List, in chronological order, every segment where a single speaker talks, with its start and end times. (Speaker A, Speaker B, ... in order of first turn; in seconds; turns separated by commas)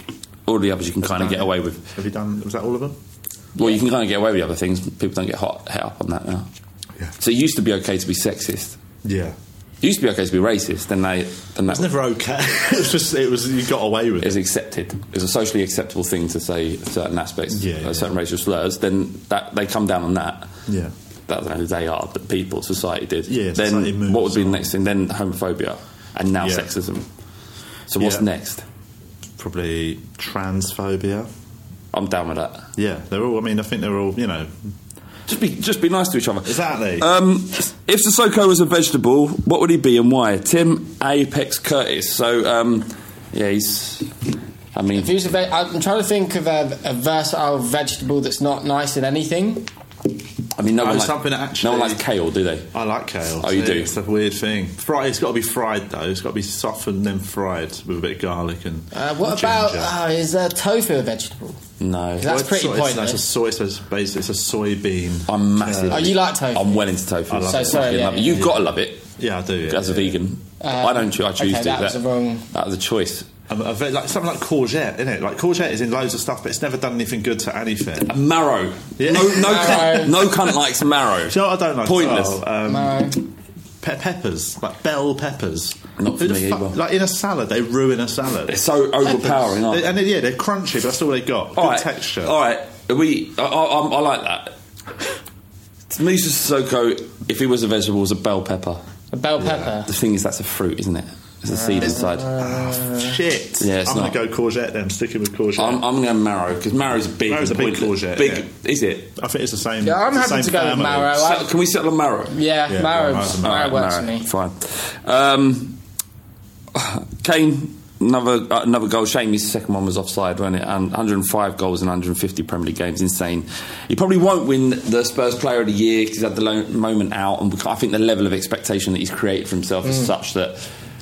Speaker A: 0.5-1.8, Speaker B: 1.0-3.0, Speaker A: 3.6-6.5, Speaker A: 7.2-8.8, Speaker B: 9.0-9.4, Speaker A: 9.8-11.9, Speaker B: 11.7-14.4, Speaker A: 14.2-20.6, Speaker B: 17.5-18.1, Speaker B: 20.7-20.9, Speaker A: 21.3-27.1, Speaker B: 23.3-24.7, Speaker B: 26.4-26.7, Speaker A: 27.9-28.6, Speaker B: 28.0-28.3, Speaker B: 29.4-31.3, Speaker A: 31.9-32.7, Speaker B: 32.8-34.5, Speaker A: 35.3-44.1, Speaker B: 36.5-37.1, Speaker A: 44.7-45.1, Speaker C: 45.0-49.7, Speaker A: 50.6-52.7, Speaker B: 50.8-52.0, Speaker B: 52.7-59.9, Speaker A: 53.4-53.9, Speaker C: 58.9-61.6, Speaker A: 61.8-62.3, Speaker C: 62.2-63.2, Speaker B: 62.2-66.2, Speaker A: 65.3-69.1, Speaker C: 65.9-66.8, Speaker B: 67.3-70.2, Speaker C: 67.5-68.4, Speaker A: 69.7-73.3, Speaker C: 70.6-72.5, Speaker B: 73.5-78.1, Speaker A: 78.1-82.4, Speaker B: 79.0-80.3, Speaker C: 79.4-80.2, Speaker B: 81.3-83.2, Speaker C: 82.7-83.2, Speaker B: 83.8-92.3, Speaker A: 86.0-86.8, Speaker A: 88.5-89.9, Speaker A: 91.6-94.5, Speaker A: 95.9-98.8, Speaker C: 99.1-99.9, Speaker B: 99.4-99.8, Speaker A: 99.9-102.3, Speaker C: 101.5-103.2, Speaker B: 101.8-105.8, Speaker A: 103.6-104.2, Speaker A: 105.6-109.1, Speaker B: 107.3-108.5, Speaker B: 109.2-111.2, Speaker C: 109.8-111.5, Speaker A: 111.2-112.4, Speaker C: 112.3-114.2, Speaker B: 112.7-113.8, Speaker A: 113.4-115.8, Speaker A: 116.7-130.7